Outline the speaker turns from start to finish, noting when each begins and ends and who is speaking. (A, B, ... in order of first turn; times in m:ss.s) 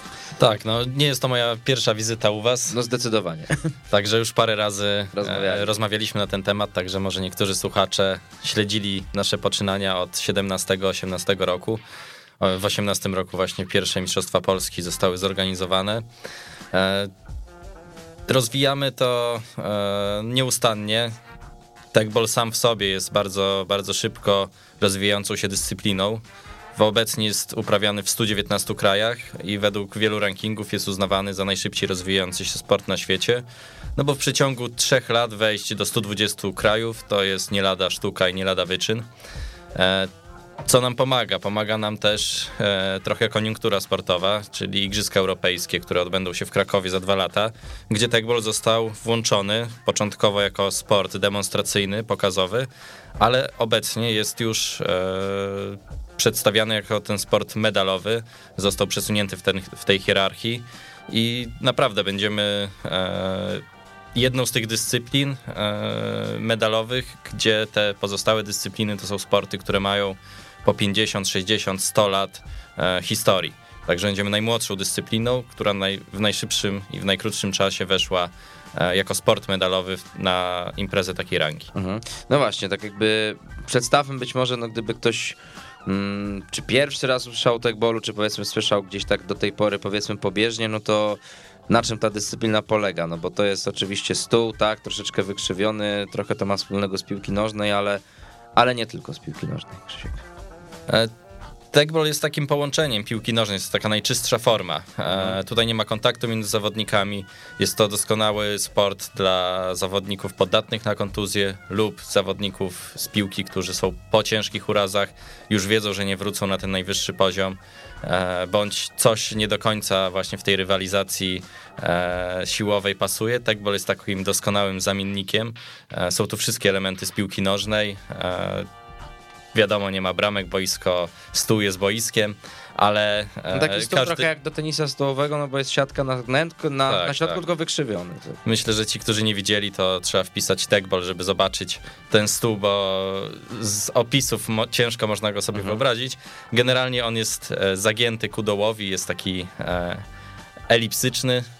0:00.4-0:02.8 A
0:02.7-0:03.7 B
0:03.9-0:11.8 A
0:05.1-0:05.7 B
0:12.4-0:16.0 A
0:16.7-0:17.1 A
0:18.3-0:21.1 A
0:21.9-0:26.2 A
0:26.8-0:33.4 A
0:34.0-0:39.0 A
0:39.7-0:40.1 A
0:40.6-1:03.6 A
1:04.1-1:21.7 A
1:21.7-1:38.0 B
1:38.6-1:40.2 B
1:41.7-2:08.7 A
2:09.5-2:14.2 A
2:13.5-2:18.4 B
2:16.9-2:17.4 A
2:18.4-2:30.0 A
2:25.5-2:25.8 B
2:30.7-2:31.4 A